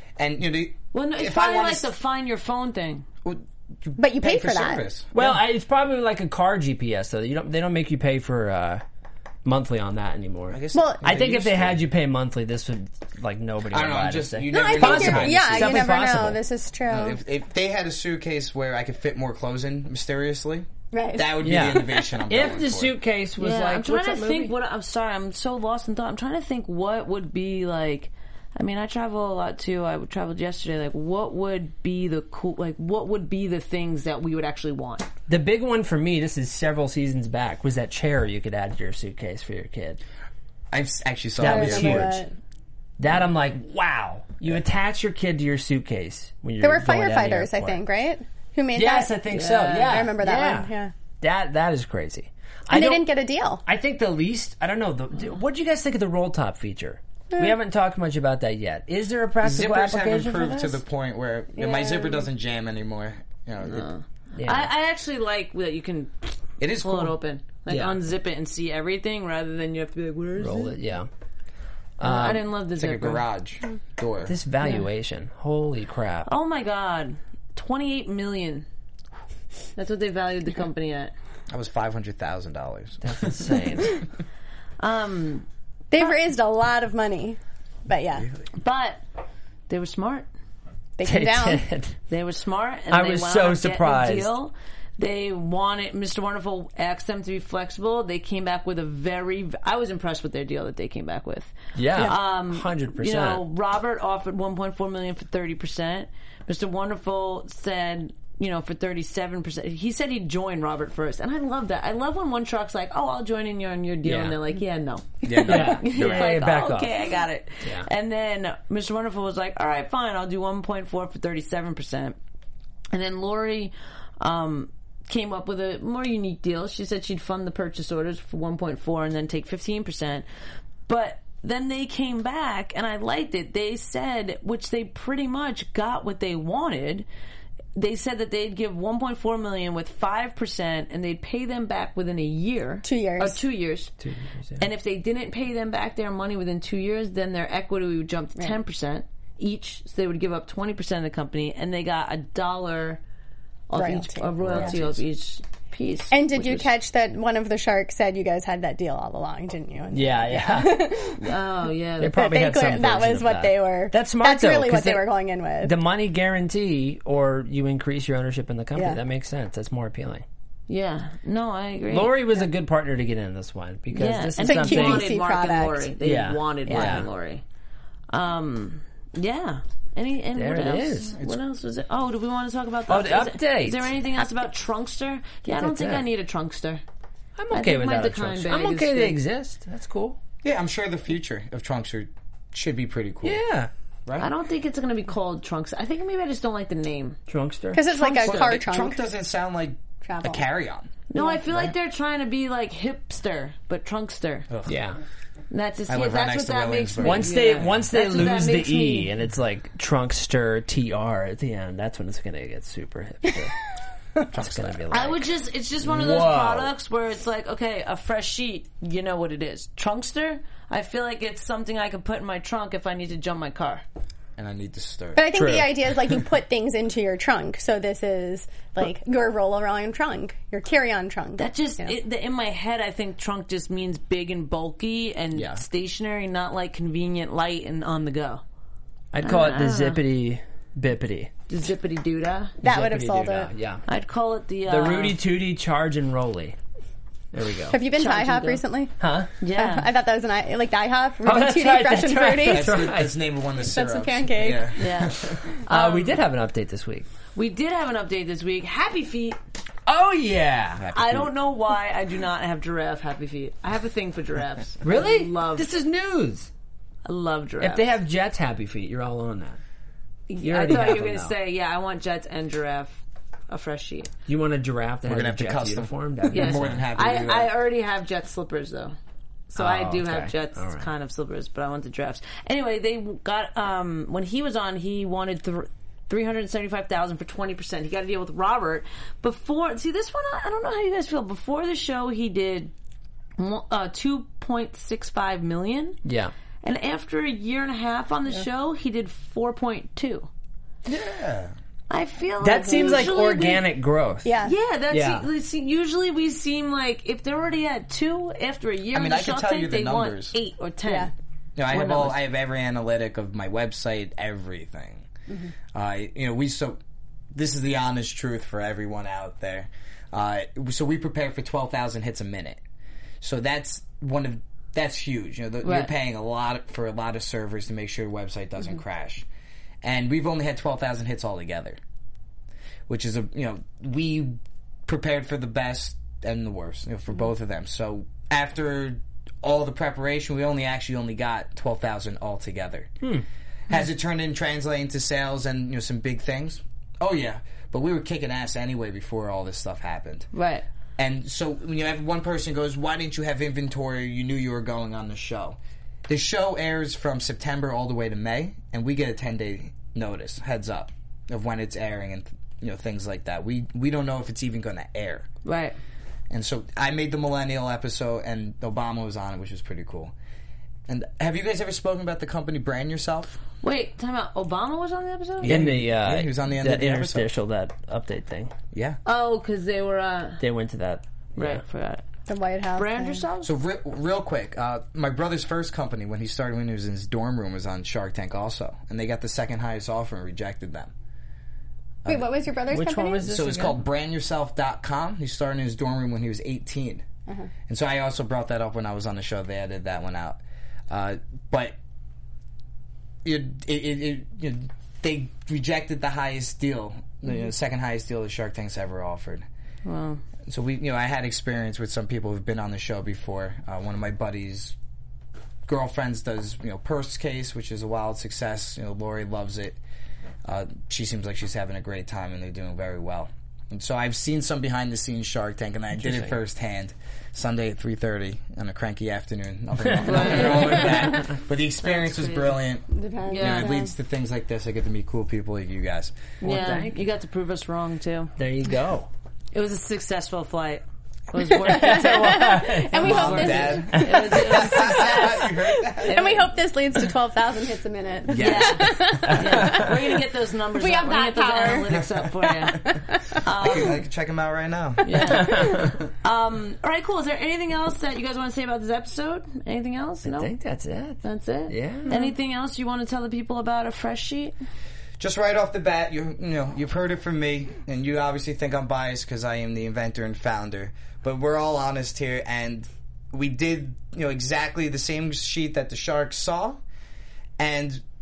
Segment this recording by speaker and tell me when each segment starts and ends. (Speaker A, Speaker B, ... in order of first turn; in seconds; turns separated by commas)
Speaker A: 0.2-1.9, Speaker B: 0.9-3.0, Speaker A: 3.2-5.3, Speaker C: 4.0-4.8, Speaker D: 5.1-8.8, Speaker D: 9.4-16.4, Speaker A: 10.5-11.8, Speaker C: 10.7-11.1, Speaker A: 13.7-15.9, Speaker C: 14.5-17.2, Speaker A: 16.9-22.9, Speaker C: 20.9-22.1, Speaker D: 21.4-24.5, Speaker B: 23.4-35.1, Speaker D: 35.3-40.0, Speaker A: 40.7-42.2, Speaker D: 41.4-42.2, Speaker C: 41.4-42.3, Speaker D: 43.0-47.8, Speaker C: 46.6-49.2, Speaker D: 48.7-53.1, Speaker B: 49.3-50.1, Speaker C: 49.7-50.9, Speaker C: 52.7-53.6, Speaker D: 53.6-60.8, Speaker A: 59.4-63.9, Speaker C: 61.5-62.2, Speaker B: 63.6-70.8, Speaker D: 64.3-64.7, Speaker A: 66.6-67.2, Speaker D: 67.7-68.0, Speaker D: 70.4-71.1, Speaker D: 72.0-72.5, Speaker B: 72.0-73.2, Speaker A: 72.8-74.3, Speaker D: 74.3-76.3, Speaker B: 76.2-78.7, Speaker B: 79.8-81.1, Speaker A: 81.5-83.4, Speaker D: 83.0-84.0, Speaker B: 84.8-85.5, Speaker C: 85.9-88.3, Speaker B: 88.5-89.0, Speaker B: 89.7-90.3, Speaker C: 91.0-91.6, Speaker D: 91.0-92.0, Speaker B: 92.1-122.2, Speaker D: 92.9-94.3, Speaker D: 101.7-103.4, Speaker D: 114.0-114.4, Speaker A: 115.2-116.4, Speaker D: 115.3-116.9, Speaker B: 122.9-130.2, Speaker B: 130.9-137.1, Speaker B: 137.7-143.9, Speaker C: 142.8-143.4, Speaker D: 144.0-144.7, Speaker B: 144.6-153.0, Speaker B: 153.7-156.7, Speaker C: 153.7-154.7, Speaker D: 154.4-154.8, Speaker A: 154.6-154.8, Speaker C: 156.1-161.3, Speaker D: 159.9-160.9, Speaker B: 161.2-162.2, Speaker D: 162.0-165.1, Speaker C: 162.1-165.7, Speaker D: 165.6-170.2, Speaker B: 170.7-172.2, Speaker D: 171.9-175.1, Speaker B: 173.9-177.4, Speaker C: 174.4-175.9, Speaker D: 176.0-177.1, Speaker C: 176.7-177.0, Speaker B: 178.1-186.8, Speaker D: 180.3-181.2, Speaker D: 182.9-183.9, Speaker D: 185.5-186.1, Speaker D: 187.3-190.2, Speaker B: 187.5-189.2, Speaker A: 190.4-193.4, Speaker D: 193.2-193.7, Speaker B: 194.2-197.2, Speaker D: 197.3-197.8, Speaker C: 197.7-199.0, Speaker A: 198.2-200.9, Speaker C: 200.0-200.4, Speaker B: 201.1-204.5, Speaker C: 201.2-201.4, Speaker A: 201.5-201.7, Speaker A: 204.5-204.8, Speaker D: 204.7-205.0, Speaker B: 205.5-209.1, Speaker A: 205.9-207.7, Speaker D: 207.0-213.6, Speaker A: 214.3-214.8, Speaker D: 214.3-215.3, Speaker B: 214.9-223.8, Speaker D: 215.8-216.7, Speaker A: 224.4-225.3, Speaker C: 225.1-231.9, Speaker D: 225.3-226.1, Speaker B: 231.4-238.4, Speaker D: 235.3-235.6, Speaker D: 239.1-241.3, Speaker B: 239.2-240.0, Speaker B: 241.5-242.5, Speaker D: 242.6-243.8, Speaker C: 242.6-243.5, Speaker B: 243.9-245.2, Speaker D: 244.7-246.6, Speaker D: 247.3-247.8, Speaker C: 247.7-248.9, Speaker B: 247.9-248.6, Speaker D: 249.0-249.3, Speaker B: 249.4-249.9, Speaker C: 249.5-252.8, Speaker D: 251.2-253.1, Speaker A: 252.4-255.4, Speaker C: 253.7-254.7, Speaker B: 254.7-256.2, Speaker D: 255.6-257.1, Speaker B: 257.3-259.4, Speaker D: 259.9-260.9, Speaker A: 260.8-261.3, Speaker B: 260.9-265.7, Speaker D: 264.8-266.5, Speaker B: 267.0-267.9, Speaker D: 267.6-269.6, Speaker B: 270.3-274.1, Speaker D: 270.4-271.3, Speaker D: 274.3-276.8, Speaker A: 275.0-277.5, Speaker B: 276.3-278.9, Speaker B: 279.5-292.7, Speaker D: 279.6-280.9, Speaker B: 293.4-296.0, Speaker D: 296.0-296.3, Speaker B: 296.6-300.3, Speaker A: 300.8-301.5, Speaker B: 301.9-303.7, Speaker D: 302.4-304.3, Speaker C: 302.7-303.0, Speaker C: 304.2-304.5, Speaker B: 304.4-311.1, Speaker D: 304.9-305.2, Speaker A: 308.9-310.4, Speaker C: 310.8-311.1, Speaker A: 311.6-315.1, Speaker B: 311.7-312.2, Speaker A: 315.7-316.8, Speaker A: 317.3-322.6, Speaker A: 323.2-329.2, Speaker B: 325.6-325.9, Speaker A: 329.8-331.8, Speaker A: 332.9-342.9, Speaker A: 343.7-350.3, Speaker B: 350.3-350.6, Speaker A: 351.0-365.3, Speaker B: 365.4-365.8, Speaker A: 366.3-370.1, Speaker A: 370.9-373.4, Speaker B: 373.6-375.6, Speaker A: 375.4-377.3, Speaker D: 375.4-378.5, Speaker A: 378.7-379.0, Speaker B: 379.0-380.4, Speaker D: 380.4-381.6, Speaker B: 381.4-382.0, Speaker C: 382.3-383.2, Speaker B: 382.7-383.5, Speaker A: 383.4-390.9, Speaker C: 392.1-393.3, Speaker D: 392.7-393.8, Speaker A: 393.3-397.0, Speaker A: 397.7-401.8, Speaker A: 403.2-409.4, Speaker B: 409.8-410.2, Speaker A: 410.4-414.7, Speaker A: 415.7-419.8, Speaker A: 420.4-436.2, Speaker D: 426.0-426.4, Speaker B: 430.0-432.6, Speaker C: 432.9-433.7, Speaker B: 433.3-433.9, Speaker D: 436.4-436.9, Speaker B: 436.4-438.3, Speaker D: 438.4-439.1, Speaker B: 439.5-446.5, Speaker D: 441.6-444.4, Speaker C: 441.6-445.4, Speaker A: 442.9-446.3, Speaker C: 445.9-450.1, Speaker A: 448.3-449.1, Speaker B: 448.4-454.0, Speaker D: 449.3-449.9, Speaker C: 450.8-452.0, Speaker C: 452.7-453.2, Speaker A: 453.6-455.7, Speaker B: 455.0-460.5, Speaker C: 455.1-455.8, Speaker D: 455.4-455.9, Speaker D: 460.2-462.1, Speaker B: 461.2-464.5, Speaker C: 462.1-462.3, Speaker A: 465.2-476.8, Speaker A: 477.6-478.0